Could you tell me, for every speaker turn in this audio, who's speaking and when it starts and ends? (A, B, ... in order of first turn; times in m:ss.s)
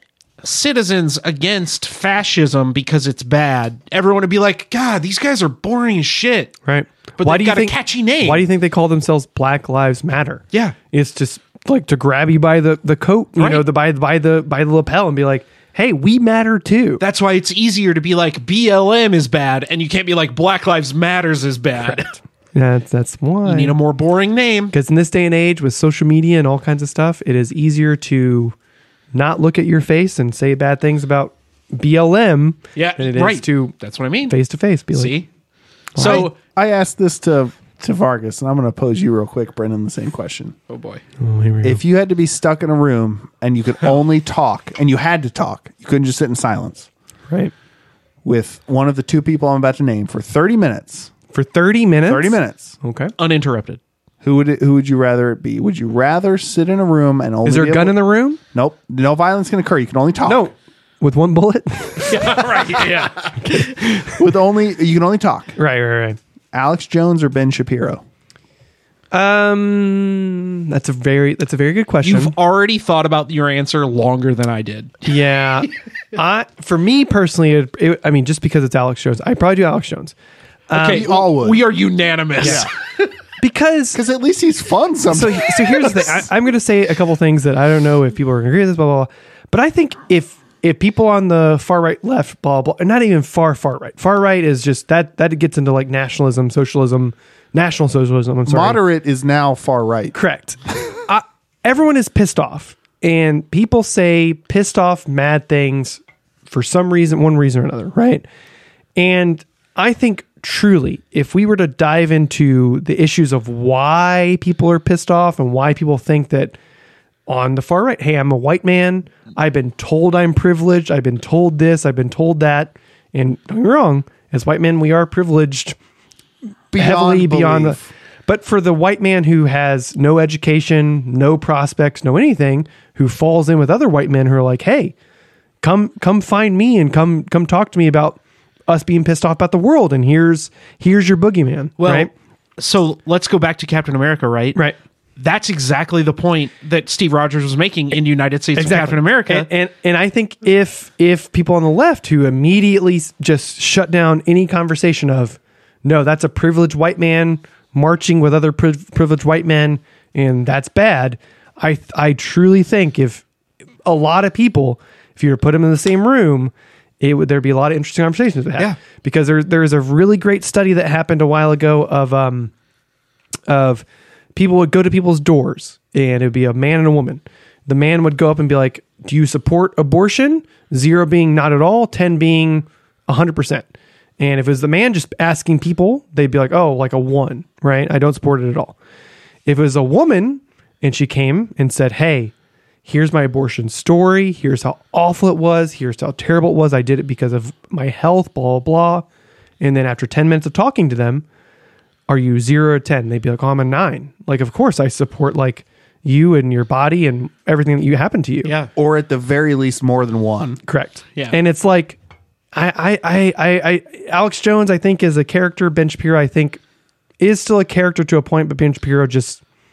0:00.4-0:06.6 A
0:06.6-0:17.0 B
0:07.2-0:08.4 A
0:13.4-0:13.6 A
0:17.0-0:22.1 A
0:21.9-0:23.7 B
0:23.4-0:24.7 A
0:24.7-0:28.5 B
0:29.1-0:33.7 B
0:32.8-0:34.3 A
0:34.3-0:35.2 B
0:34.9-0:35.2 A
0:35.9-0:36.3 B
0:36.0-0:36.4 A
0:36.0-0:40.6 C
0:40.7-0:41.0 A
0:41.2-0:41.8 B
0:41.6-0:46.9 C
0:48.2-0:51.1 C
0:51.3-0:53.1 B
0:52.1-0:52.7 C
0:53.2-0:53.8 A
0:54.2-0:58.0 C
0:57.4-0:58.4 B
0:58.5-1:00.4 C
1:00.2-1:02.8 B
1:02.1-1:03.7 A
1:03.4-1:04.1 B
1:04.0-1:05.6 C
1:05.6-1:06.2 B
1:06.5-1:08.0 C
1:09.1-1:12.3 B
1:12.0-1:15.1 A
1:15.0-1:20.1 B
1:20.7-1:21.1 B
1:20.7-1:22.7 A
1:20.8-1:21.6 C
1:22.4-1:22.7 C
1:23.4-1:24.0 B
1:23.9-1:26.2 C
1:25.1-1:38.8 B
1:38.5-1:40.2 C
1:40.1-1:48.2 B
1:49.0-1:56.5 B
1:57.3-2:05.8 B
2:06.7-2:07.9 C
2:06.8-2:14.9 B
2:15.6-2:22.1 B
2:21.8-2:24.6 A
2:25.2-2:29.5 A
2:28.5-2:43.2 B
2:43.8-2:52.5 B
2:53.5-2:53.8 B
2:54.3-3:03.7 B
3:04.2-3:08.8 B
3:09.4-3:12.3 B
3:12.8-3:19.0 B
3:19.6-3:21.2 B
3:22.1-3:28.5 B
3:28.4-3:28.7 A
3:28.8-3:30.6 C
3:30.6-3:32.0 B
3:32.5-3:36.6 B
3:37.2-3:39.4 B